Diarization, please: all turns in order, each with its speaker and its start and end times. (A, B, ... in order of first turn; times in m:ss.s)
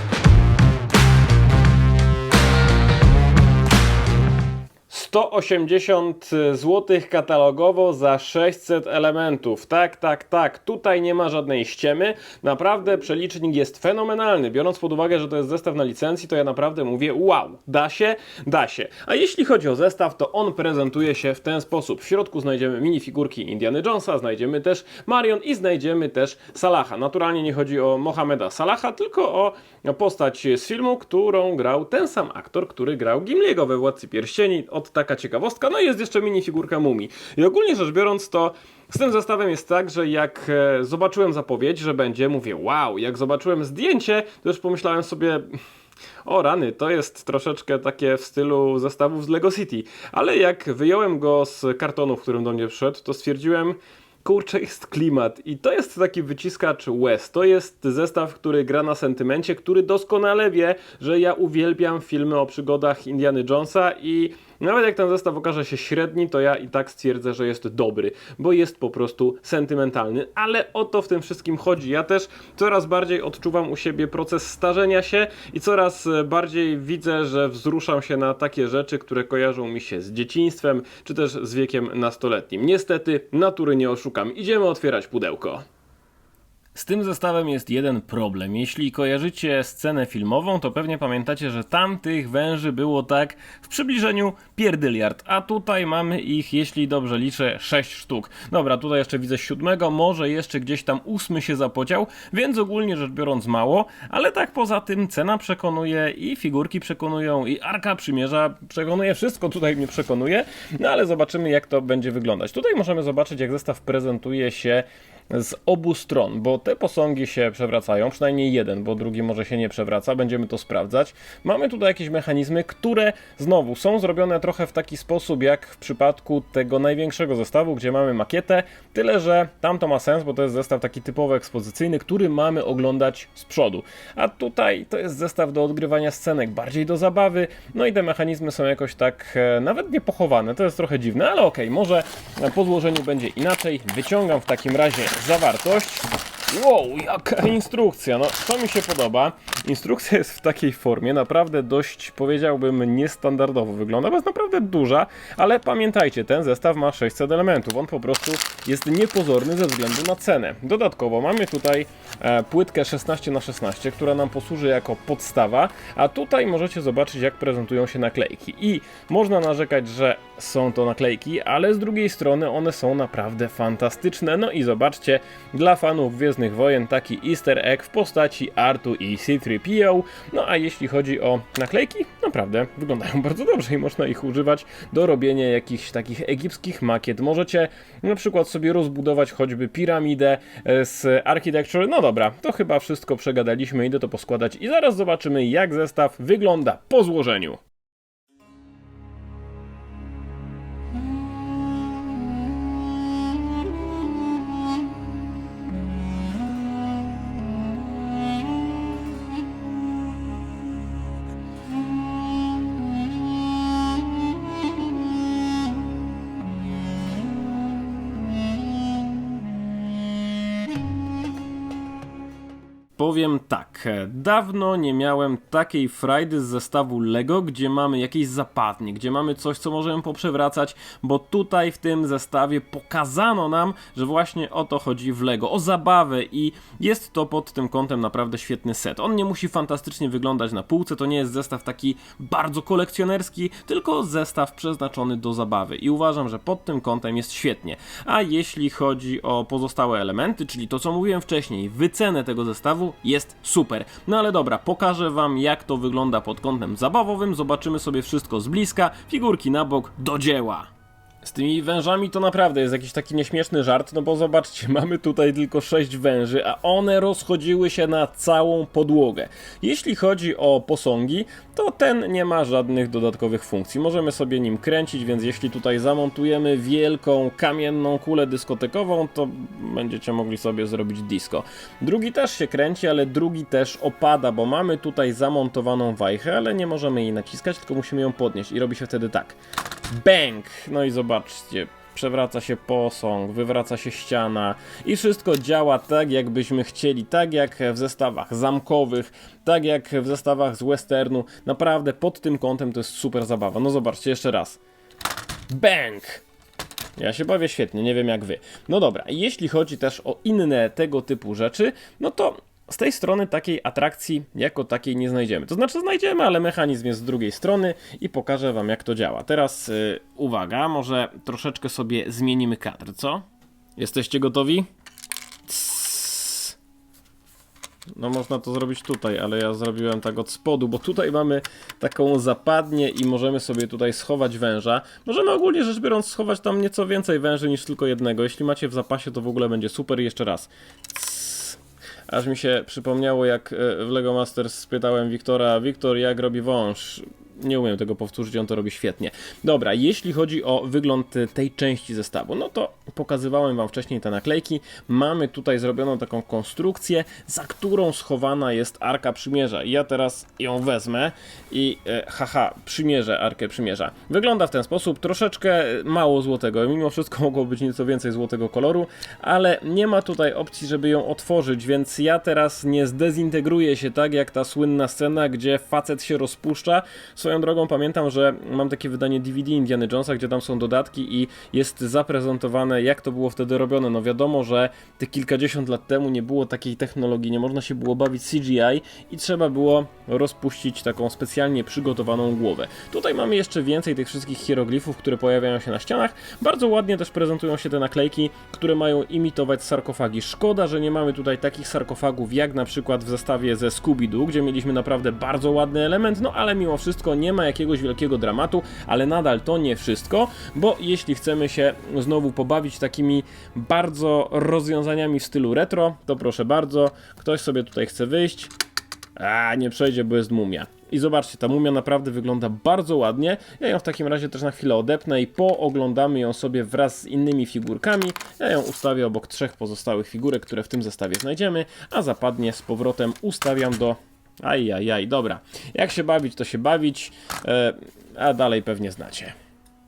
0:04.9-0:45.6 A
0:46.2-1:25.6 A
1:26.7-3:17.6 A
3:43.0-4:20.7 A
4:21.2-4:49.4 A
4:49.9-5:04.6 A
5:05.5-5:06.2 A
5:07.0-5:23.2 A
5:23.8-5:24.7 A
5:25.5-5:26.6 A
5:28.0-6:58.5 A
6:59.2-7:19.4 A